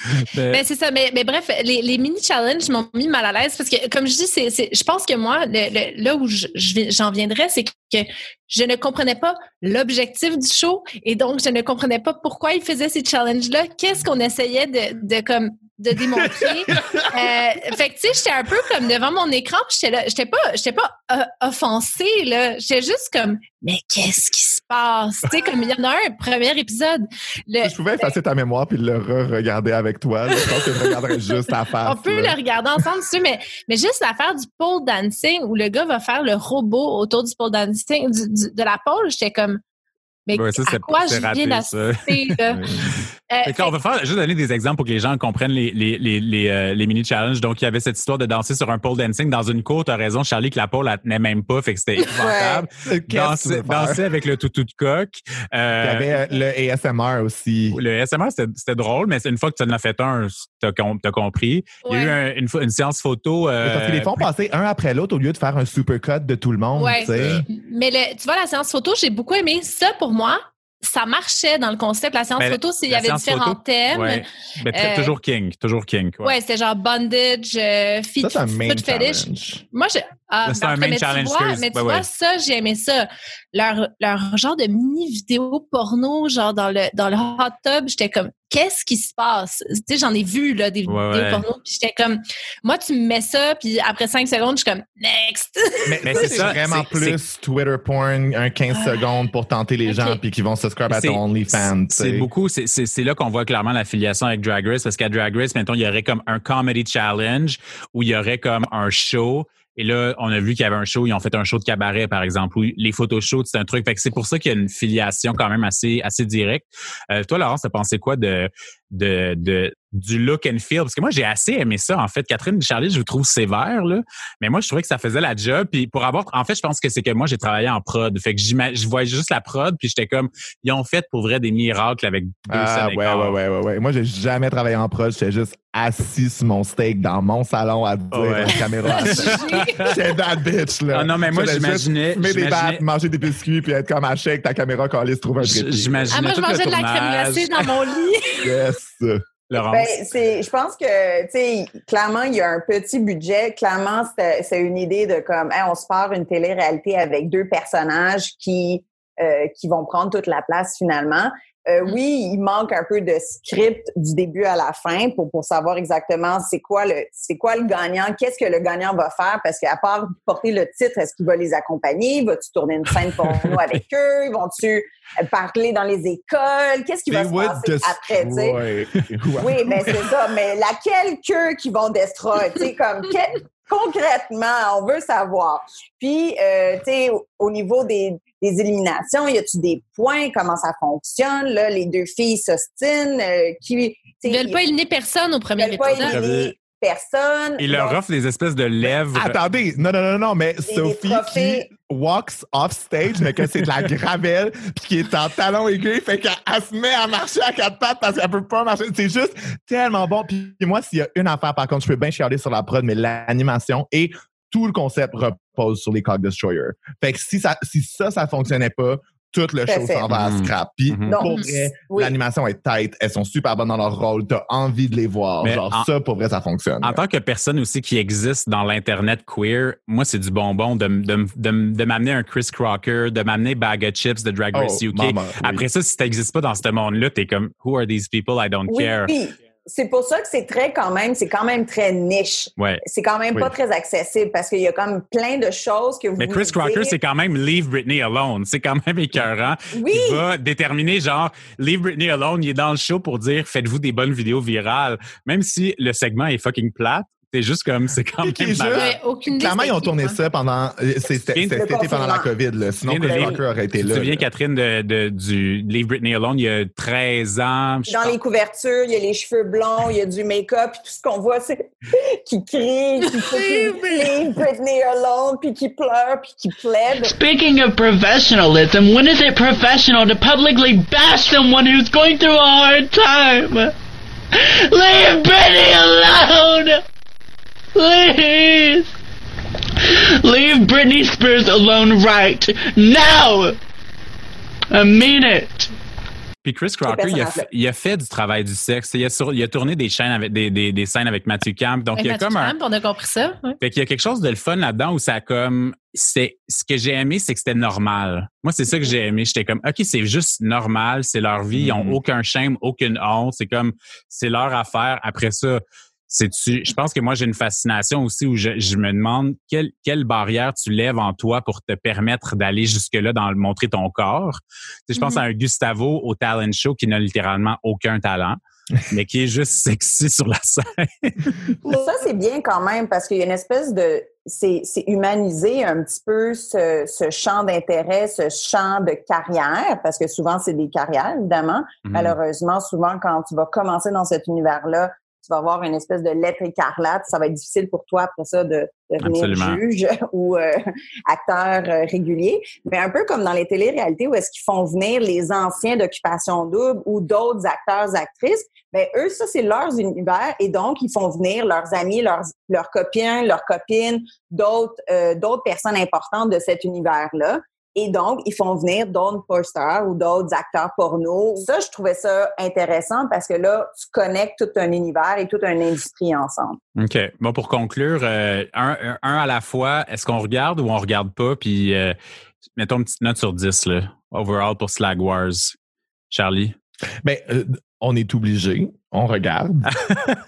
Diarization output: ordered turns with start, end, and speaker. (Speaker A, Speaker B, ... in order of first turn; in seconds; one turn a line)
Speaker A: 0.3-0.6
Speaker B: 0.5-28.1
Speaker C: 16.2-17.2
Speaker C: 27.6-32.4
Speaker B: 30.3-31.2
Speaker B: 31.8-39.6
Speaker B: 40.3-42.6
Speaker A: 40.3-56.2
Speaker C: 42.5-42.9
Speaker B: 43.3-43.7
Speaker D: 52.2-52.7
Speaker C: 52.8-54.0
Speaker C: 55.8-57.8
Speaker A: 57.7-64.3
Speaker B: 61.8-62.1
Speaker C: 63.6-67.4
Speaker B: 66.7-75.2
Speaker A: 67.1-67.4
Speaker A: 72.4-76.3
Speaker B: 76.2-96.5
Speaker C: 78.2-79.6
Speaker A: 80.4-82.1
Speaker A: 90.8-91.5
Speaker C: 95.9-102.3
Speaker A: 96.0-97.2
Speaker B: 98.7-99.0
Speaker B: 99.8-100.2
Speaker A: 100.9-133.4
Speaker C: 132.5-146.0
Speaker A: 138.1-139.9
Speaker B: 138.6-140.0
Speaker A: 140.9-142.8
Speaker A: 145.4-147.8
Speaker B: 146.1-148.6
Speaker C: 148.4-149.2
Speaker A: 149.5-149.9
Speaker D: 149.7-178.6
Speaker C: 177.1-180.0
Speaker D: 179.4-194.6
Speaker B: 194.2-196.1
Speaker D: 195.6-198.0
Speaker A: 195.9-196.5
Speaker A: 197.6-199.4
Speaker C: 198.8-227.0
Speaker D: 200.7-201.7
Speaker D: 219.7-220.1
Speaker A: 220.1-221.2
Speaker D: 221.1-222.1
Speaker A: 225.4-225.9
Speaker A: 226.8-239.1
Speaker C: 234.5-235.6
Speaker D: 238.7-246.9
Speaker A: 246.2-258.9
Speaker D: 249.7-250.2
Speaker C: 258.2-264.2
Speaker B: 258.7-260.2
Speaker D: 261.3-262.3
Speaker A: 262.8-268.2
Speaker D: 263.0-263.4
Speaker D: 267.9-277.1
Speaker E: 277.1-283.7
Speaker E: 284.4-286.8
Speaker E: 287.7-288.9
Speaker E: 290.1-293.6
Speaker E: 294.7-295.7
Speaker A: 296.4-302.6
Speaker D: 296.8-297.5
Speaker B: 301.9-303.6
Speaker A: 303.6-331.4
Speaker C: 311.5-312.0
Speaker B: 324.9-325.2
Speaker D: 331.6-376.6
Speaker A: 341.8-342.2
Speaker A: 349.0-349.6
Speaker A: 376.8-382.0
Speaker A: 382.6-385.6
Speaker A: 386.1-386.6
Speaker C: 387.0-389.7
Speaker A: 389.9-390.2